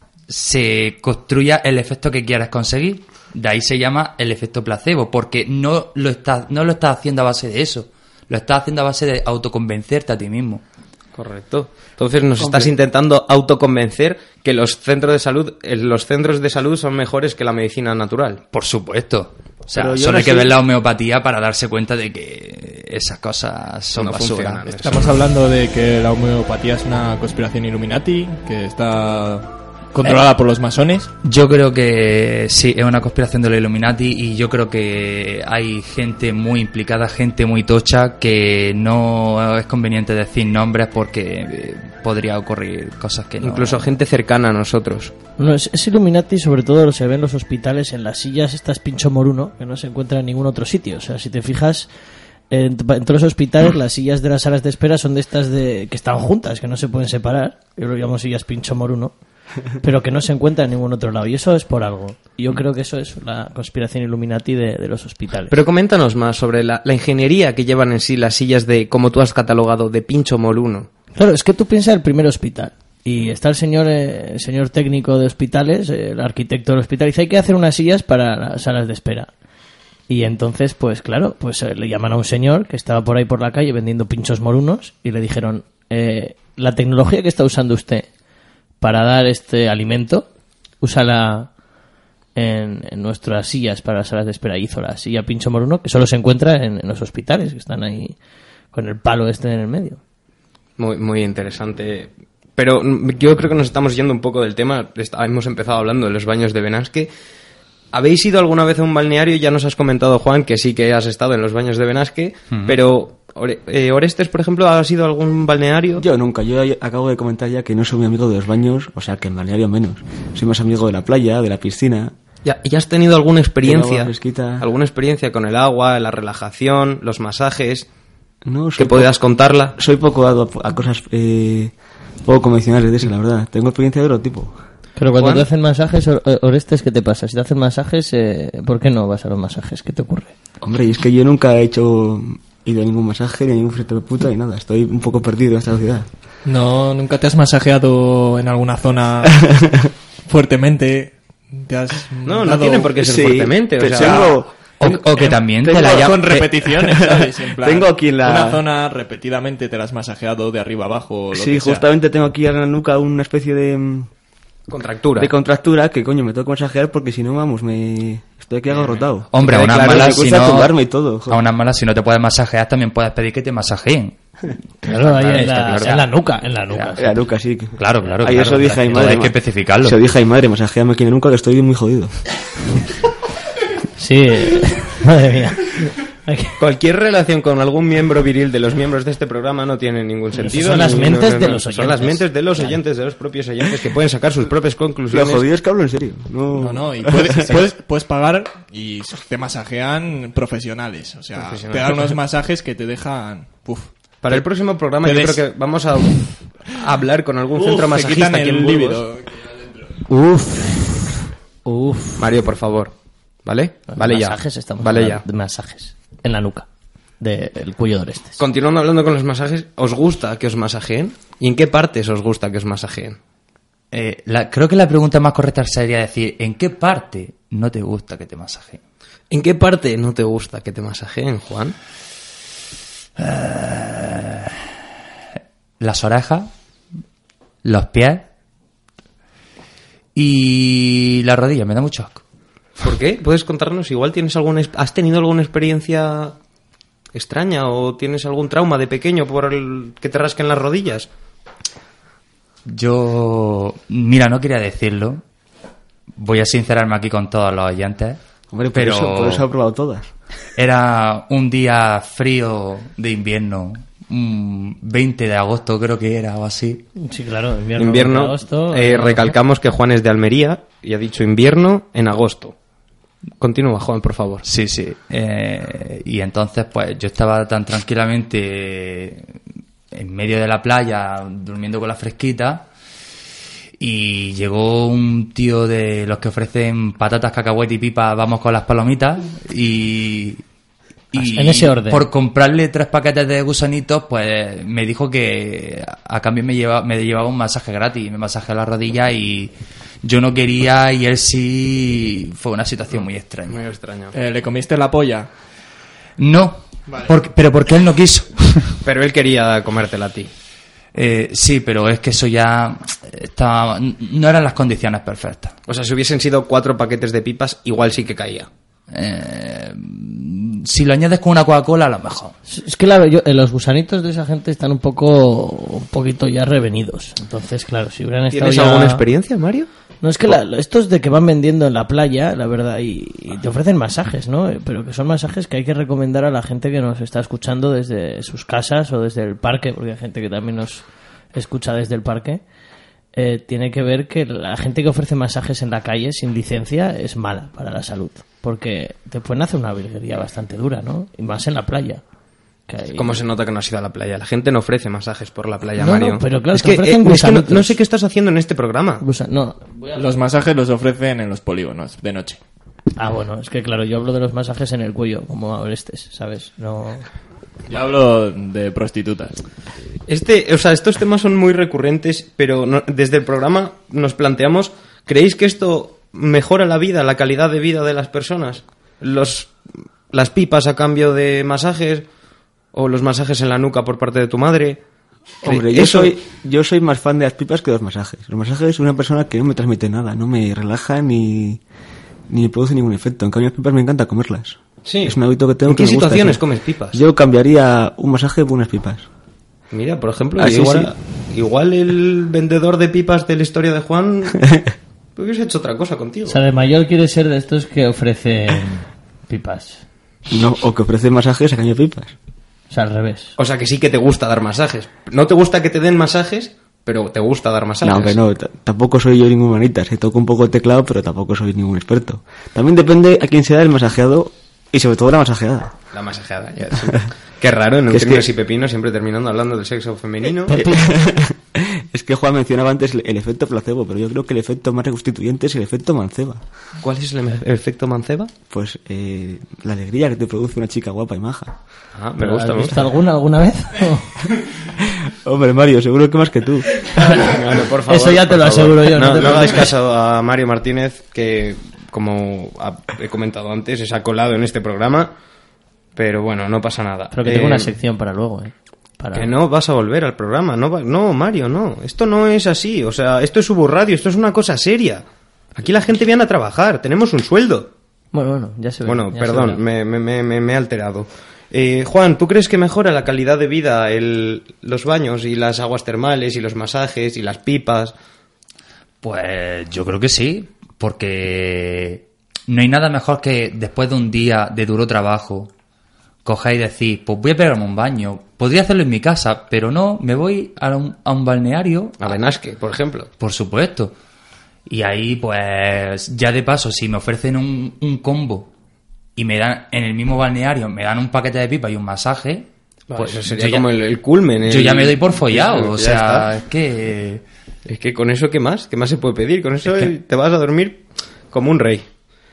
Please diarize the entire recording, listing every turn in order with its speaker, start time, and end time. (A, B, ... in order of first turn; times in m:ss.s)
0:00.3-0:10.6 A
0:11.2-0:18.4 B
0:12.4-0:12.7 C
0:18.5-0:24.7 A
0:19.7-0:20.6 C
0:23.9-0:25.0 B
0:24.7-0:31.1 D
0:31.2-0:43.9 A
0:43.4-0:45.1 B
0:45.4-0:51.9 E
0:52.5-0:59.1 E
0:59.8-1:05.5 E
1:05.5-1:10.9 B
1:11.2-1:19.3 E
1:20.1-1:28.1 E
1:28.8-1:30.3 E
1:30.8-1:31.5 E
1:32.4-1:38.2 E
1:38.7-1:40.0 E
1:40.8-1:47.1 B
1:47.9-1:56.0 B
1:56.0-2:02.1 C
2:02.4-2:07.9 B
2:03.6-2:04.7 C
2:08.4-2:09.1 C
2:08.8-2:09.8 B
2:09.8-2:11.7 C
2:12.2-2:14.6 C
2:15.0-2:20.3 E
2:15.1-2:15.5 B
2:20.6-2:26.1 C
2:26.4-2:29.5 D
2:29.3-2:29.5 C
2:30.3-2:32.9 D
2:32.2-2:34.2 B
2:32.9-2:38.6 C
2:33.9-2:34.4 D
2:34.8-2:36.4 A
2:35.2-2:41.8 D
2:41.3-2:44.1 C
2:44.7-2:45.3 B
2:45.2-2:51.4 C
2:49.3-2:50.7 A
2:49.4-2:50.7 B
2:51.3-2:54.2 A
2:54.8-2:57.2 E
2:54.9-2:56.0 B
2:55.1-2:56.0 A
2:57.0-3:02.1 C
2:57.8-3:00.0 A
3:04.0-3:06.6 E
3:06.6-3:15.4 B
3:10.4-3:12.8 E
3:10.5-3:11.0 D
3:15.1-3:17.6 C
3:16.6-3:24.5 D
3:21.4-3:22.0 B
3:24.2-3:26.1 B
3:25.0-3:25.5 D
3:26.7-3:29.0 B
3:27.5-3:30.0 D
3:30.2-3:30.6 E
3:31.6-3:32.3 E
3:32.2-3:32.9 B
3:33.4-3:35.2 B
3:33.9-3:36.7 E
3:37.2-3:38.4 E
3:38.4-3:43.2 B
3:43.9-3:48.8 A
3:49.3-3:51.8 B
3:53.2-3:54.5 A
3:55.8-3:56.5 A
3:57.6-3:58.2 A
4:00.2-4:02.2 A
4:02.8-4:06.4 B
4:07.1-4:11.1 B
4:12.7-4:15.2 A
4:16.2-4:18.2 A
4:18.5-4:20.1 C
4:18.7-4:19.4 A
4:20.6-4:26.8 A
4:27.0-4:29.3 E
4:27.8-4:32.6 B
4:33.4-4:34.4 B
4:34.4-4:39.3 A
4:39.9-4:42.7 A
4:43.8-4:50.4 A
4:51.1-5:03.6 A
4:51.2-4:52.0 E
5:03.5-5:04.2 B
5:04.1-5:05.3 D
5:06.2-5:08.8 A
5:06.9-5:07.1 D
5:08.8-5:10.3 B
5:10.9-5:15.6 A
5:15.7-5:18.5 B
5:18.9-5:22.3 A
5:22.5-5:29.0 E
5:28.3-5:29.7 B
5:30.0-5:42.4 E
5:43.2-5:52.0 E
5:52.7-5:53.2 E
5:52.9-5:59.0 B
5:55.8-5:57.8 E
5:59.0-6:00.1 E
6:00.0-6:02.4 D
6:03.0-6:07.1 E
6:07.7-6:09.4 D
6:10.1-6:19.5 B
6:20.1-6:22.0 B
6:22.7-6:24.8 B
6:25.4-6:31.6 C
6:25.4-6:26.1 B
6:32.3-6:39.1 C
6:34.8-6:37.0 B
6:39.7-6:44.4 B
6:40.4-6:40.9 C
6:45.2-6:46.4 B
6:46.3-6:49.8 E
6:50.3-6:52.2 C
6:52.7-6:53.4 E
6:53.4-6:58.2 B
6:57.8-7:05.7 C
7:05.9-7:10.6 B
7:07.9-7:08.3 C
7:10.5-7:11.0 E
7:10.5-7:16.4 C
7:16.8-7:18.3 B
7:18.5-7:21.6 C
7:22.0-7:22.8 B
7:22.2-7:24.1 E
7:24.7-7:27.2 C
7:27.0-7:29.7 E
7:27.1-7:35.1 B
7:36.0-7:37.7 B
7:37.1-7:39.3 E
7:39.1-7:45.0 B
7:45.6-7:47.7 B
7:48.1-7:49.6 E
7:48.9-7:57.9 B
7:59.0-8:05.5 A
8:06.2-8:12.2 A
8:12.0-8:13.1 B
8:13.2-8:13.9 A
8:14.7-8:18.5 A
8:19.2-8:23.7 A
8:22.9-8:26.3 B
8:24.4-8:27.2 A
8:27.7-8:31.9 B